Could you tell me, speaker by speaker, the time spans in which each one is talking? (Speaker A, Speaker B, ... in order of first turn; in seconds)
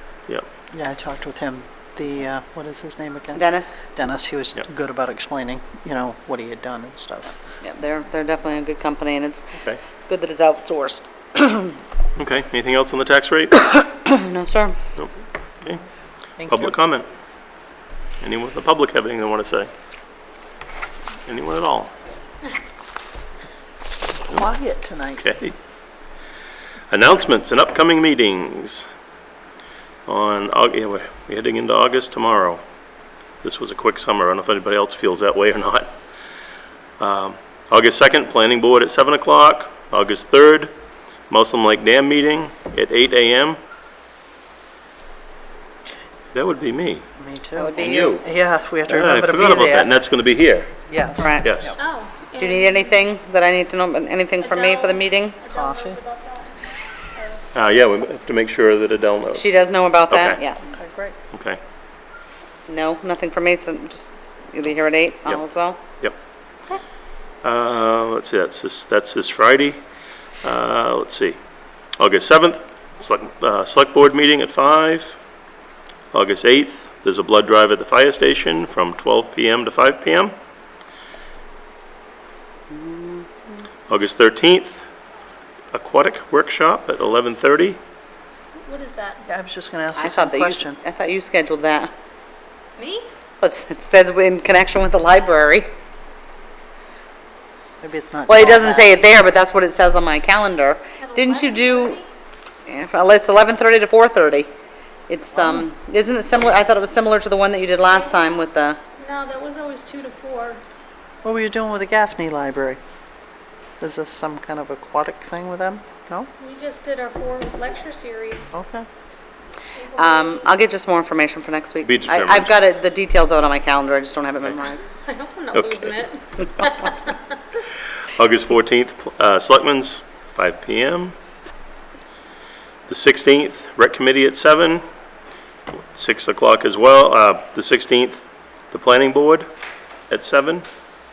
Speaker A: 0.7-3.4, 3.9-7.3, 16.4-16.7, 24.3-25.2, 47.2-49.9, 50.9-51.8, 55.5-56.0, 60.7-61.1, 89.2-90.8, 97.8-98.9, 105.3-105.7, 111.2-112.8, 113.8-116.3, 118.5-118.9
Speaker B: 3.3-3.8, 7.6-11.8, 13.7-14.8, 47.6-48.2, 51.2-51.7, 52.4-55.3, 59.3-60.8, 62.7-65.8, 82.7-83.2, 89.9-91.9, 93.4-95.7, 98.3-102.0, 102.7-104.5, 105.1-108.8, 119.9-125.0
Speaker C: 12.2-13.7, 16.4-17.1, 18.2-19.7, 21.3-21.9, 25.2-25.5, 26.9-28.9, 30.1-32.6, 33.4-35.9, 37.0-40.7, 41.3-43.6, 46.3-47.0, 47.8-48.2, 48.9-50.7, 51.4-51.7, 57.5-59.5, 60.1-60.4, 61.3-61.6, 67.4-69.8, 70.4-71.4, 72.0-75.2, 76.1-80.3, 83.9-84.8, 85.7-87.8, 121.8-122.5, 125.5-126.0, 128.1-131.1, 132.9-134.8, 135.9-139.5, 140.1-140.7
Speaker D: 51.8-53.0, 54.4-57.4, 88.6-89.2, 92.8-93.1, 101.0-102.0, 107.9-108.3, 109.0-110.6, 116.4-118.5, 119.7-120.5, 125.0-127.2